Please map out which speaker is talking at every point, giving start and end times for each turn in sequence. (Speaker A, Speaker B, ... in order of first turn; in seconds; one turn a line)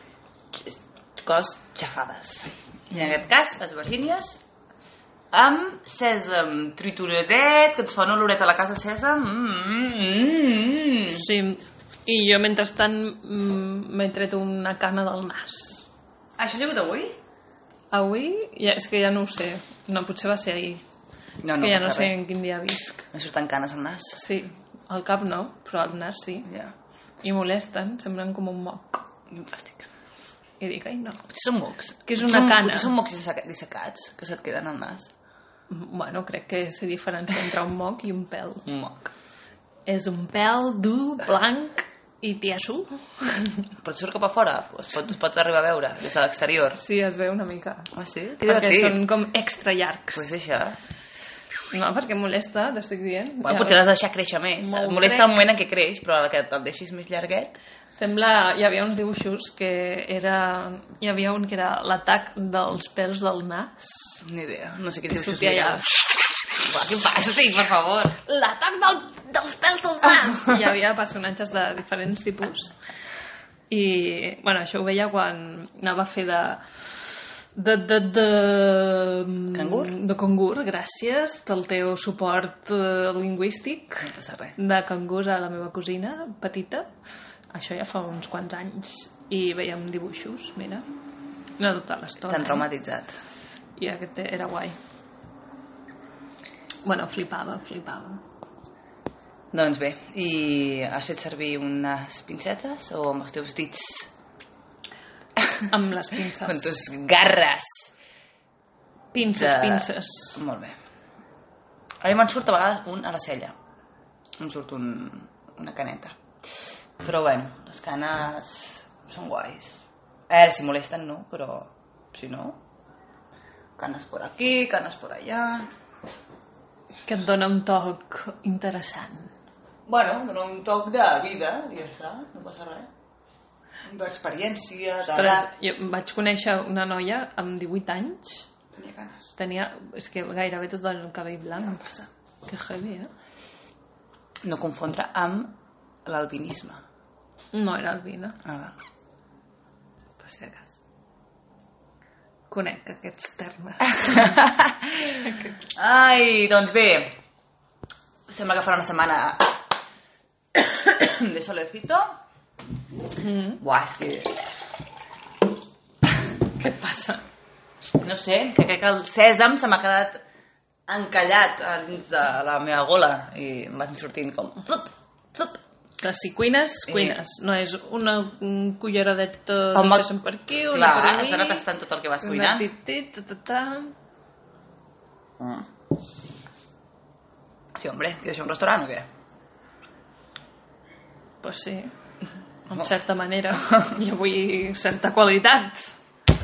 Speaker A: 0.5-4.4
Speaker A: 5.3-11.3
Speaker B: 11.1-15.9
Speaker A: 16.4-17.2
Speaker B: 17.9-20.8
Speaker A: 21.4-22.2
Speaker B: 21.5-23.1
Speaker A: 23.1-24.2
Speaker B: 24.1-26.5
Speaker A: 26.5-26.7
Speaker B: 27.2-29.1
Speaker A: 29.3-29.9
Speaker B: 30.6-31.3
Speaker A: 31.3-35.1
Speaker B: 32.0-32.9
Speaker B: 35.7-38.6
Speaker A: 38.6-39.1
Speaker B: 39.9-43.7
Speaker A: 43.8-46.8
Speaker B: 46.7-47.9
Speaker A: 47.9-49.0
Speaker B: 48.4-50.3
Speaker A: 50.1-50.8
Speaker B: 51.7-53.8
Speaker A: 53.4-57.6
Speaker B: 54.6-55.3
Speaker B: 57.9-64.2
Speaker A: 64.2-68.2
Speaker B: 65.1-65.9
Speaker B: 68.2-72.8
Speaker B: 73.7-86.9
Speaker A: 79.5-79.9
Speaker A: 84.0-84.5
Speaker B: 87.5-90.8
Speaker B: 91.6-92.7
Speaker A: 92.3-93.2
Speaker B: 93.8-94.8
Speaker B: 96.8-98.2
Speaker A: 99.5-104.1
Speaker B: 105.7-106.7
Speaker A: 106.4-107.9
Speaker B: 109.1-110.4
Speaker A: 109.2-110.8
Speaker A: 112.0-113.5
Speaker A: 114.4-116.2
Speaker A: 117.0-122.6
Speaker A: 123.8-125.7
Speaker B: 127.1-129.3
Speaker A: 129.9-132.9
Speaker A: 133.9-135.5
Speaker B: 135.1-138.5
Speaker A: 138.8-139.3
Speaker B: 139.4-143.1
Speaker A: 144.4-146.8
Speaker B: 147.5-148.4
Speaker A: 148.4-148.8
Speaker B: 150.2-150.8
Speaker B: 152.5-154.4
Speaker A: 154.0-157.1
Speaker B: 155.2-155.6
Speaker A: 158.3-159.6
Speaker A: 160.5-162.1
Speaker B: 163.2-163.6
Speaker A: 163.6-164.4
Speaker B: 166.4-167.2
Speaker A: 168.0-170.2
Speaker A: 170.9-175.6
Speaker B: 176.0-181.7
Speaker A: 176.9-177.2
Speaker A: 179.8-182.7
Speaker B: 182.2-183.9
Speaker A: 185.4-185.7
Speaker A: 187.8-189.1
Speaker B: 191.4-191.9
Speaker B: 192.7-195.9